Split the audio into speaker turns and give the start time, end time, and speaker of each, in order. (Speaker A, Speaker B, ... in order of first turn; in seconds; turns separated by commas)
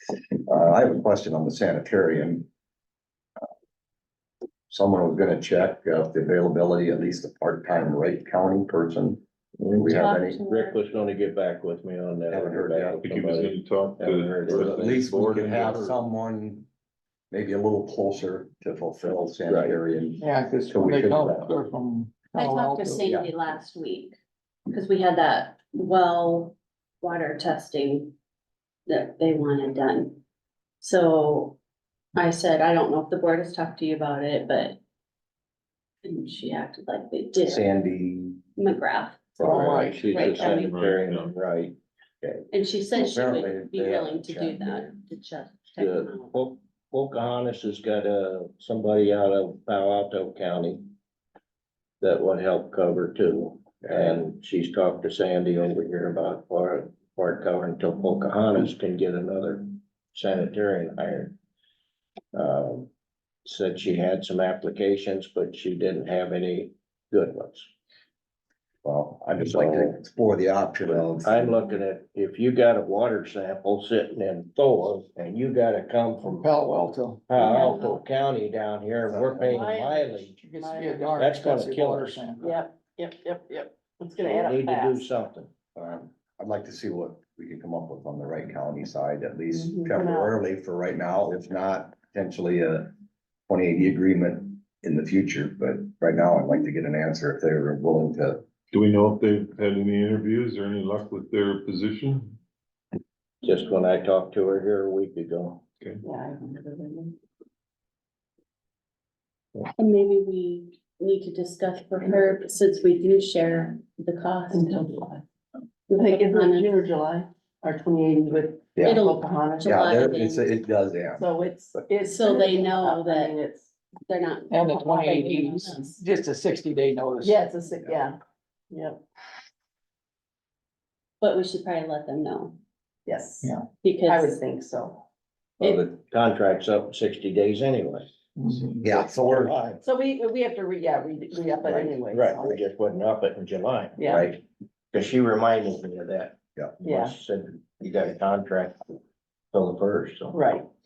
Speaker A: 0.4-2.5, Speaker A: 4.7-9.2, Speaker B: 9.6-15.1, Speaker A: 9.8-10.4, Speaker C: 9.9-10.8, Speaker A: 12.3-13.0, Speaker D: 13.0-16.0, Speaker A: 14.5-16.7, Speaker A: 17.3-21.5, Speaker B: 19.5-19.8, Speaker E: 20.2-23.1, Speaker C: 22.3-24.2, Speaker C: 24.7-28.1, Speaker C: 28.9-30.2, Speaker C: 30.8-31.6, Speaker C: 32.2-34.8, Speaker C: 36.0-37.7, Speaker A: 37.5-38.4, Speaker C: 38.6-40.7, Speaker B: 39.4-41.8, Speaker E: 39.4-40.1, Speaker D: 40.1-41.3, Speaker A: 42.2-44.9, Speaker C: 42.5-46.3, Speaker B: 45.8-50.9, Speaker B: 52.0-61.3, Speaker A: 53.8-54.2, Speaker B: 62.3-62.9, Speaker B: 63.4-67.7, Speaker A: 68.8-71.5, Speaker B: 69.4-69.9, Speaker B: 70.9-76.5, Speaker E: 76.2-77.5, Speaker B: 77.3-80.4, Speaker F: 77.5-77.9, Speaker A: 79.1-79.7, Speaker F: 79.5-81.1, Speaker E: 80.3-82.4, Speaker B: 81.2-82.4, Speaker F: 82.4-85.0, Speaker B: 84.2-85.5, Speaker A: 85.8-92.9, Speaker F: 89.5-90.3, Speaker A: 93.5-98.4, Speaker D: 98.7-102.4, Speaker B: 103.4-105.6, Speaker F: 106.0-107.2, Speaker C: 109.8-114.7, Speaker F: 114.5-115.2, Speaker F: 115.9-119.8, Speaker C: 116.0-116.8, Speaker A: 118.8-119.0, Speaker C: 118.8-120.5, Speaker A: 119.7-121.3, Speaker F: 121.2-123.8, Speaker C: 122.0-123.3, Speaker C: 124.1-126.0, Speaker E: 124.5-127.4, Speaker F: 124.7-125.2, Speaker F: 127.2-128.2, Speaker F: 128.7-129.0, Speaker C: 131.2-132.6, Speaker F: 133.1-133.5, Speaker C: 133.8-134.3, Speaker F: 134.1-135.0, Speaker B: 135.6-138.1, Speaker E: 138.4-138.8, Speaker A: 138.8-139.6, Speaker B: 138.8-139.8, Speaker F: 139.8-142.6, Speaker B: 141.7-144.4, Speaker F: 144.0-144.3, Speaker B: 144.9-148.8, Speaker F: 146.8-147.2, Speaker B: 149.5-150.4, Speaker F: 150.3-150.7